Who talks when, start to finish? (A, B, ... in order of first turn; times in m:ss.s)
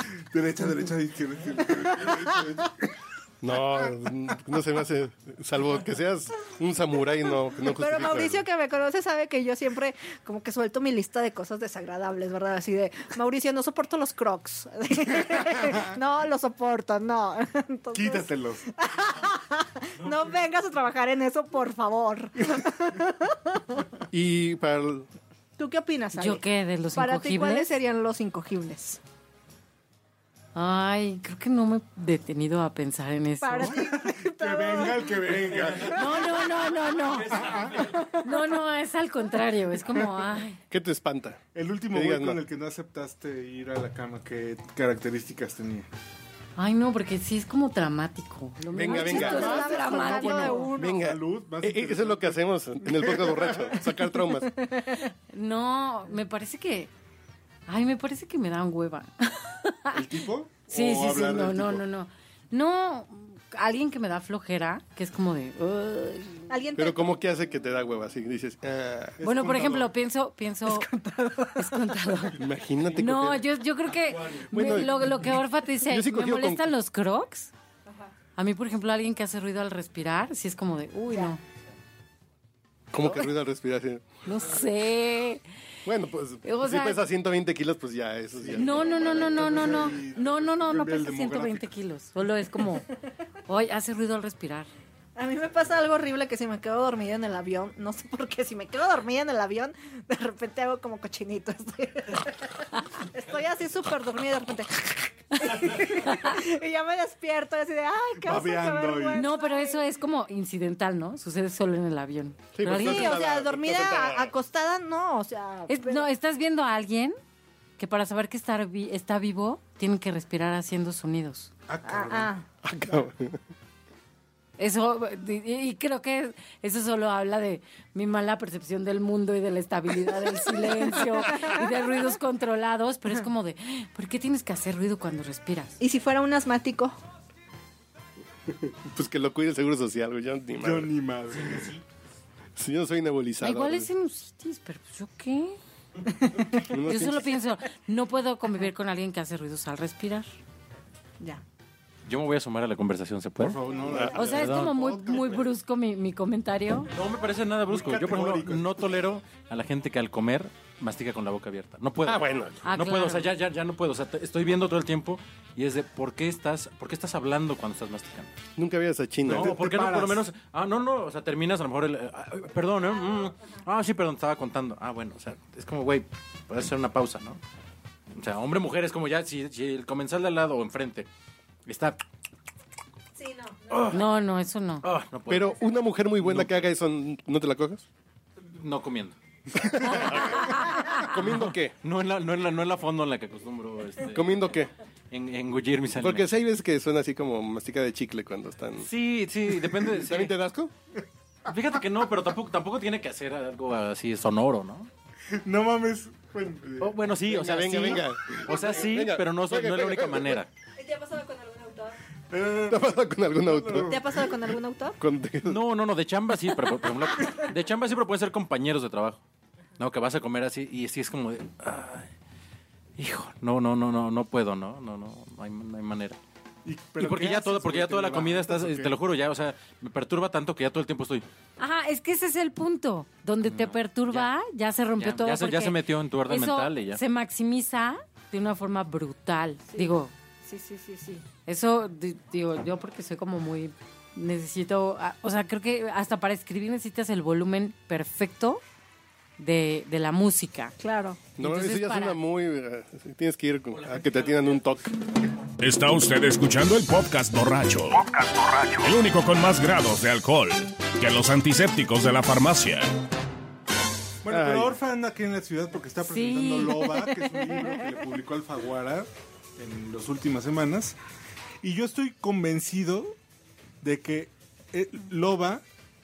0:00.1-0:02.7 A
0:03.4-0:08.4 B
0:07.6-0:23.8 C
0:17.9-0:18.6 A
0:24.1-0:25.1 B
0:25.6-0:29.0 C
0:26.2-0:27.7 D
0:30.6-0:33.8 D
0:33.4-0:36.5 C
0:33.6-0:36.5 A
0:35.8-0:40.6 D
0:37.3-0:37.9 E
0:37.3-0:37.9 A
0:40.7-0:41.4 B
0:41.6-0:45.9 A
0:41.9-0:42.4 B
0:46.6-0:50.7 D
0:48.7-0:54.5 B
0:48.8-0:50.8 C
0:49.1-0:54.0 A
0:54.6-0:55.1 C
0:55.3-0:56.9 D
0:57.7-1:00.0 D
0:59.9-1:01.8 A
1:00.7-1:06.5 D
1:06.5-1:07.1 C
1:06.8-1:09.2 B
1:09.2-1:09.9 A
1:09.2-1:10.9 D
1:10.7-1:11.8 C
1:11.6-1:12.4 D
1:12.4-1:13.4 B
1:13.0-1:17.5 D
1:14.3-1:16.7 B
1:18.4-1:21.4 D
1:22.9-1:24.1 B
1:24.2-1:25.4 D
1:25.8-1:29.8 B
1:26.4-1:27.0 D
1:28.4-1:31.7 A
1:28.6-1:32.9 D
1:33.5-1:34.7 D
1:35.2-1:49.8 C
1:48.2-1:49.2 A
1:49.1-1:53.2 D
1:52.6-1:54.3 B
1:52.7-1:56.1 C
1:55.7-1:57.2 D
1:57.8-2:01.5 D
2:01.7-2:02.3 A
2:01.9-2:02.5 C
2:02.6-2:03.4 B
2:04.6-2:15.8 D
2:15.8-2:17.0 C
2:18.6-2:20.9 B
2:20.6-2:21.7 A
2:22.6-2:23.9 B
2:23.4-2:25.6 D
2:26.7-2:27.3 B
2:26.8-2:30.3 D
2:32.1-2:33.6 E
2:33.4-2:35.4 A
2:33.9-2:34.4 B
2:34.1-2:36.9 D
2:34.3-2:34.7 E
2:36.9-2:48.3 E
2:37.6-2:39.0 A
2:42.0-2:42.6 B
2:42.6-2:43.3 D
2:48.6-2:49.6 B
2:49.3-2:57.4 E
2:49.3-2:50.2 A
2:58.1-3:01.1 E
3:01.7-3:02.0 E
3:03.2-3:03.9 C
3:03.7-3:04.0 E
3:03.9-3:04.8 D
3:04.8-3:05.6 E
3:05.3-3:07.8 B
3:06.2-3:06.6 E
3:08.6-3:09.2 E
3:09.6-3:11.7 B
3:09.8-3:14.5 E
3:14.1-3:14.7 B
3:15.1-3:16.3 E
3:16.0-3:18.9 B
3:18.8-3:20.4 E
3:19.8-3:20.7 B
3:21.5-3:24.9 E
3:25.3-3:27.0 A
3:26.8-3:30.5 E
3:27.2-3:30.4 B
3:30.8-3:32.0 C
3:32.3-3:34.3 A
3:32.7-3:34.0 B
3:33.8-3:35.0 C
3:35.0-3:35.6 B
3:35.4-3:39.2 E
3:39.8-3:42.1 E
3:43.0-3:46.2 E
3:46.6-3:48.9 A
3:47.0-3:51.2 E
3:51.6-4:00.1 D
3:53.5-3:54.3 E
3:55.0-3:57.0 E
3:59.7-4:01.2 C
4:01.5-4:08.6 D
4:09.4-4:10.8 D
4:10.8-4:11.3 C
4:11.4-4:14.9 B
4:11.4-4:12.2 D
4:13.7-4:14.6 E
4:15.6-4:22.9 F
4:24.2-4:31.0 A
4:24.3-4:24.8 B
4:26.0-4:27.3 D
4:31.6-4:33.2 A
4:33.8-4:35.6 A